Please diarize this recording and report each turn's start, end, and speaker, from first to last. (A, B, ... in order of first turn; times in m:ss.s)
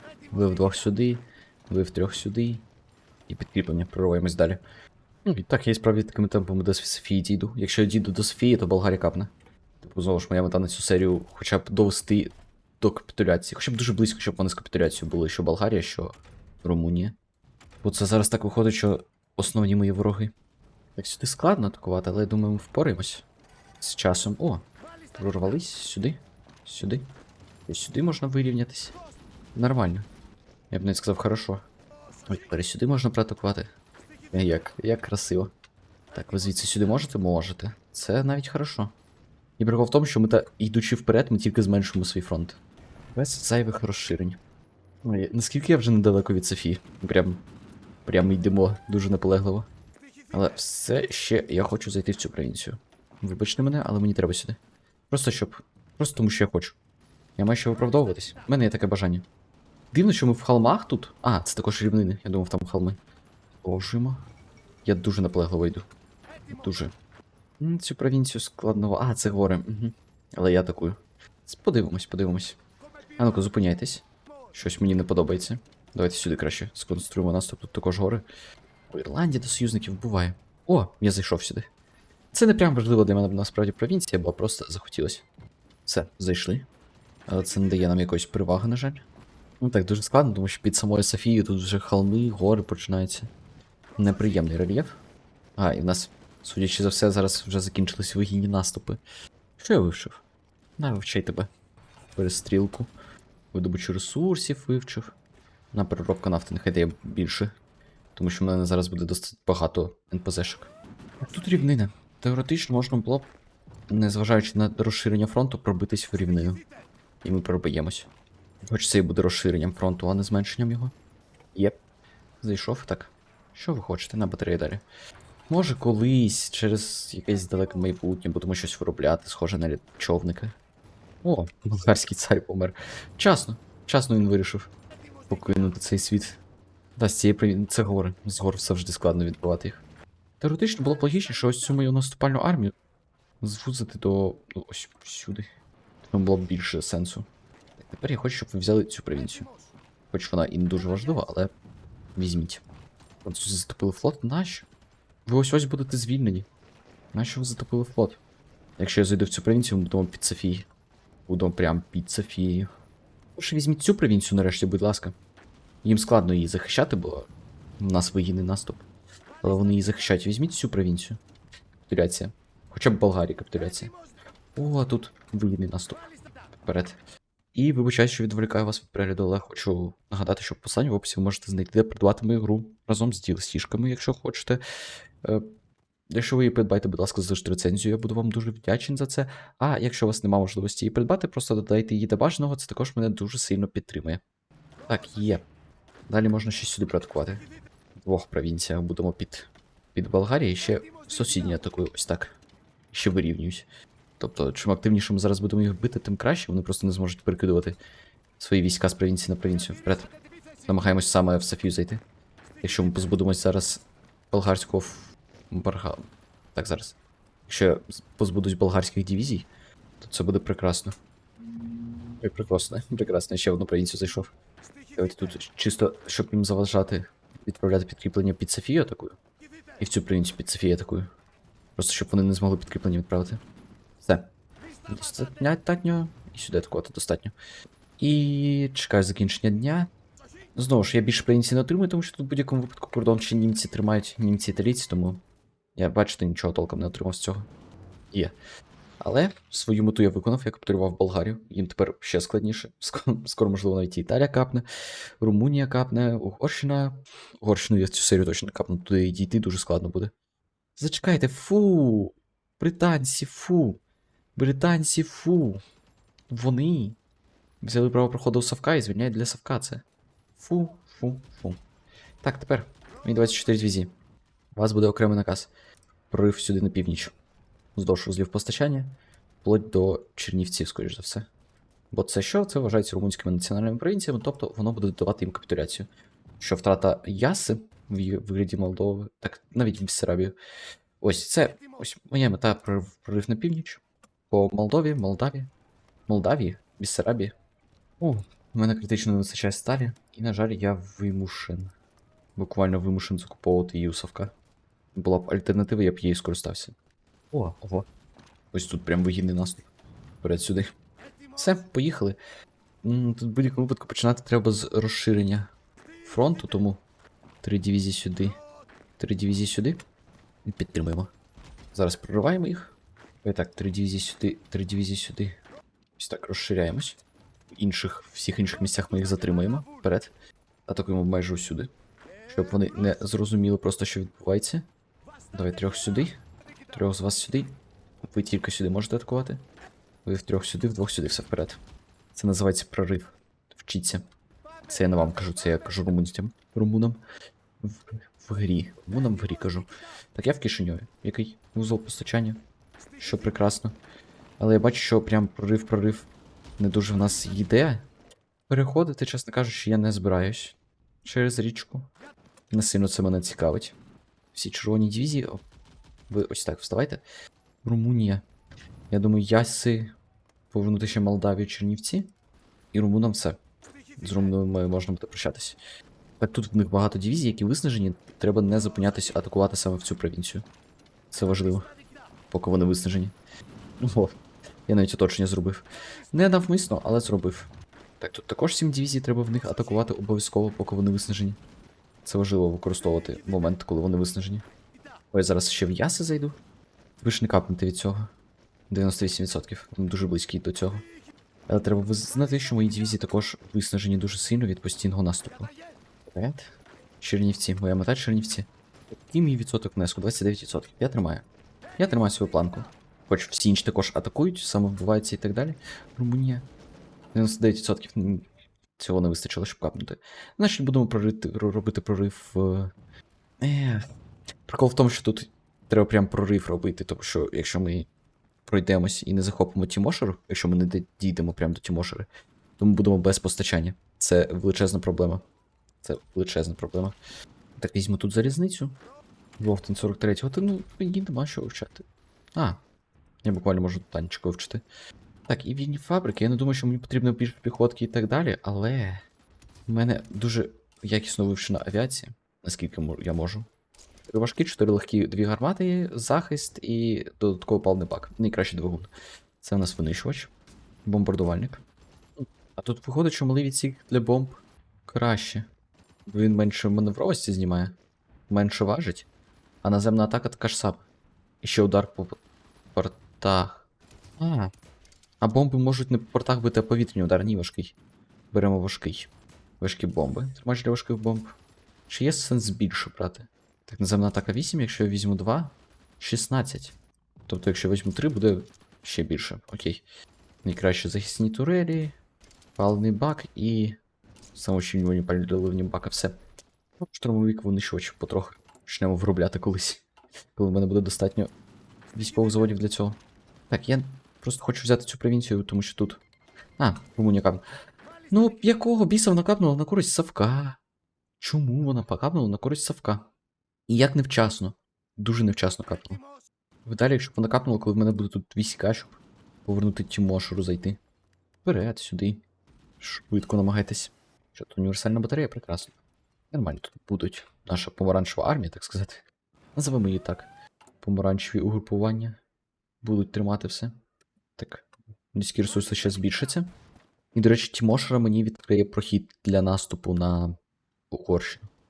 0:00.3-0:02.6 A
0:03.3-0:04.6 A
0:05.2-0:17.1 A
0:17.8-0:20.3 A
0:21.0-0:23.2 A
0:23.8-0:24.6 A
0:25.1-0:27.0 A
0:27.7-0:28.9 A
0:29.5-0:30.1 A
0:30.7-0:31.6 A
0:32.3-0:33.7 A
0:34.3-0:35.5 A
0:36.1-0:38.9 A
0:39.6-0:42.6 A
0:43.1-0:44.4 A
0:45.0-0:47.4 A
0:48.0-0:49.7 A
0:50.3-0:54.6 A
0:55.1-0:56.8 A
0:57.4-0:59.2 A
0:59.9-1:03.0 A
1:03.6-1:04.2 A
1:04.8-1:05.9 A
1:06.5-1:06.9 A
1:07.6-1:12.6 A
1:13.2-1:18.2 A
1:18.9-1:21.7 A
1:22.3-1:25.2 A
1:25.8-1:26.7 A
1:27.3-1:29.0 A
1:29.6-1:33.3 A
1:34.0-1:35.0 A
1:35.6-1:39.0 A
1:39.6-1:40.2 A
1:40.8-1:41.5 A
1:42.2-1:42.9 A
1:43.5-1:45.1 A
1:45.7-1:47.5 A
1:48.2-1:50.7 A
1:51.2-1:53.3 A
1:53.9-1:56.6 A
1:57.2-1:58.1 A
1:58.7-2:00.9 A
2:02.4-2:04.8 A
2:05.5-2:10.5 A
2:11.2-2:14.7 A
2:15.3-2:16.4 A
2:17.0-2:19.8 A
2:20.4-2:22.7 A
2:23.4-2:25.4 A
2:26.0-2:27.2 A
2:27.8-2:29.5 A
2:30.1-2:31.5 A
2:32.2-2:32.6 A
2:33.2-2:34.7 A
2:35.2-2:36.5 A
2:37.1-2:38.2 A
2:38.8-2:40.7 A
2:41.3-2:42.7 A
2:43.4-2:45.1 A
2:45.8-2:47.3 A
2:47.8-2:48.8 A
2:49.4-2:51.2 A
2:51.9-2:53.9 A
2:54.6-2:57.0 A
2:57.5-3:04.6 A
3:06.1-3:14.2 A
3:14.9-3:15.4 A
3:16.1-3:17.4 A
3:18.0-3:22.3 A
3:22.9-3:23.7 A
3:24.2-3:27.8 A
3:28.4-3:30.1 A
3:30.6-3:32.0 A
3:32.6-3:36.0 A
3:36.5-3:37.0 A
3:37.5-3:39.5 A
3:40.0-3:40.9 A
3:42.2-3:44.3 A
3:45.0-3:49.2 A
3:49.8-3:51.1 A
3:51.8-3:53.4 A
3:54.0-3:54.3 A
3:54.9-3:57.3 A
3:58.0-3:59.9 A
4:00.6-4:05.2 A
4:05.8-4:07.5 A
4:09.0-4:14.6 A
4:15.2-4:20.1 A
4:20.8-4:23.8 A
4:24.4-4:25.6 A
4:26.3-4:27.0 A
4:27.6-4:29.8 A
4:30.4-4:31.6 A
4:32.2-4:33.9 A
4:34.5-4:35.5 A
4:36.1-4:37.1 A
4:37.8-4:41.3 A
4:41.9-4:45.9 A
4:46.4-4:50.3 A
4:51.0-4:55.5 A
4:56.1-4:57.3 A
4:58.0-5:01.7 A
5:02.4-5:04.3 A
5:04.9-5:06.7 A
5:07.3-5:07.8 A
5:08.5-5:09.7 A
5:10.2-5:10.6 A
5:11.4-5:12.2 A
5:12.8-5:15.5 A
5:16.0-5:16.8 A
5:17.4-5:18.4 A
5:19.0-5:19.8 A
5:20.4-5:21.1 A
5:21.7-5:25.3 A
5:26.0-5:27.0 A
5:27.5-5:30.1 A
5:30.7-5:31.7 A
5:32.3-5:34.6 A
5:35.3-5:36.2 A
5:36.7-5:39.4 A
5:40.0-5:41.6 A
5:42.1-5:44.0 A
5:44.7-5:47.0 A
5:47.6-5:52.4 A
5:53.0-5:53.8 A
5:54.4-5:57.8 A
5:58.5-6:01.9 A
6:02.5-6:03.8 A
6:04.3-6:05.4 A
6:06.1-6:07.0 A
6:07.6-6:08.2 A
6:08.9-6:09.9 A
6:10.5-6:12.1 A
6:12.7-6:13.4 A
6:14.0-6:15.6 A
6:16.2-6:20.4 A
6:21.1-6:21.7 A
6:22.3-6:23.1 A
6:23.8-6:24.1 A
6:24.7-6:31.4 A
6:32.0-6:34.4 A
6:35.1-6:36.4 A
6:37.0-6:38.1 A
6:38.7-6:40.9 A
6:41.5-6:45.5 A
6:46.1-6:51.2 A
6:51.8-6:56.4 A
6:57.1-6:58.2 A
6:58.8-7:02.7 A
7:03.4-7:03.8 A
7:04.4-7:07.9 A
7:08.4-7:12.1 A
7:12.6-7:15.2 A
7:15.8-7:17.0 A
7:17.6-7:18.7 A
7:19.4-7:21.8 A
7:23.2-7:24.6 A
7:25.3-7:29.0 A
7:29.7-7:33.5 A
7:34.1-7:38.9 A
7:39.4-7:40.3 A
7:40.8-7:41.6 A
7:42.2-7:45.4 A
7:46.1-7:47.7 A
7:48.3-7:49.1 A
7:49.6-7:50.8 A
7:51.4-7:52.2 A
7:52.7-7:53.6 A
7:54.2-7:54.5 A
7:55.2-7:57.7 A
7:58.3-8:01.3 A
8:01.9-8:06.7 A
8:07.3-8:09.8 A
8:10.4-8:11.9 A
8:12.6-8:13.8 A
8:14.3-8:16.2 A
8:16.8-8:19.8 A
8:20.4-8:21.3 A
8:21.9-8:23.0 A
8:23.5-8:26.0 A
8:26.6-8:27.4 A
8:28.1-8:30.6 A
8:31.2-8:33.1 A
8:33.7-8:36.0 A
8:36.6-8:40.8 A
8:41.4-8:42.2 A
8:42.8-8:45.7 A
8:46.3-8:49.0 A
8:49.5-8:50.3 A
8:50.8-8:52.2 A
8:52.8-8:53.7 A
8:54.4-8:56.5 A
8:57.1-9:00.4 A
9:00.9-9:01.5 A